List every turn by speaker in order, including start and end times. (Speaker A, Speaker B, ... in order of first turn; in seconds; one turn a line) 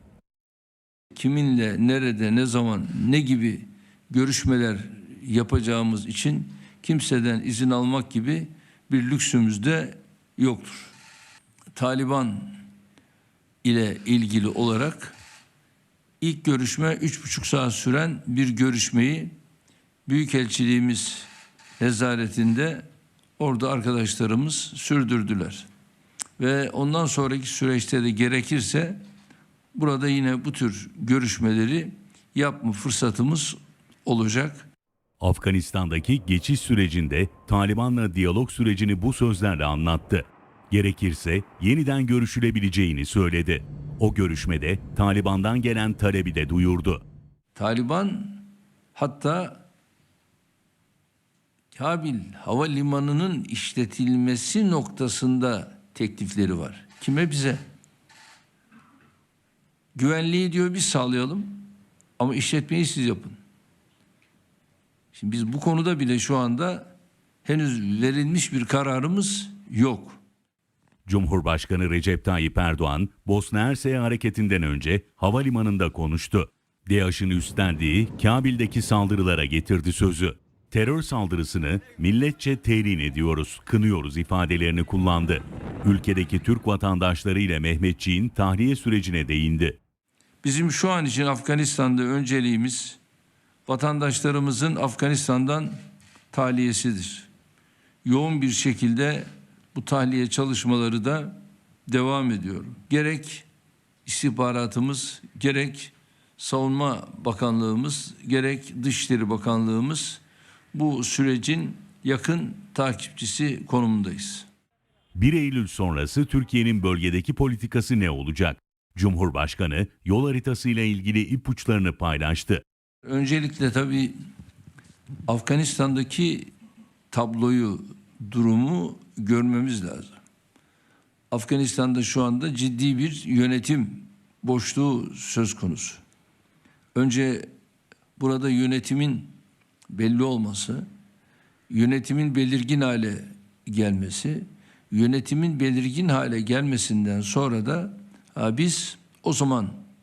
Speaker A: 1.1-10.9
Speaker A: 11.7-12.6
Speaker A: 13.6-15.2
Speaker A: 16.2-19.3
Speaker A: 20.1-22.9
Speaker A: 23.4-25.7
Speaker A: 26.4-29.0
Speaker A: 29.7-34.7
Speaker B: 35.2-47.0
Speaker A: 47.5-49.6
Speaker A: 51.7-57.6
Speaker A: 59.9-61.7
Speaker A: 62.2-63.4
Speaker A: 65.1-66.9
Speaker A: 67.4-70.2
Speaker B: 71.0-89.8
Speaker A: 90.4-93.0
Speaker A: 93.7-95.8
Speaker A: 96.3-97.3
Speaker A: 98.0-103.4
Speaker A: 104.0-110.2
Speaker A: 110.7-114.5
Speaker B: 115.2-122.6
Speaker A: 123.0-124.1
Speaker A: 125.3-126.5
Speaker A: 127.1-130.2
Speaker A: 131.3-136.0
Speaker A: 136.9-137.5
Speaker A: 138.2-139.3
Speaker A: 139.9-140.8
Speaker A: 141.7-149.8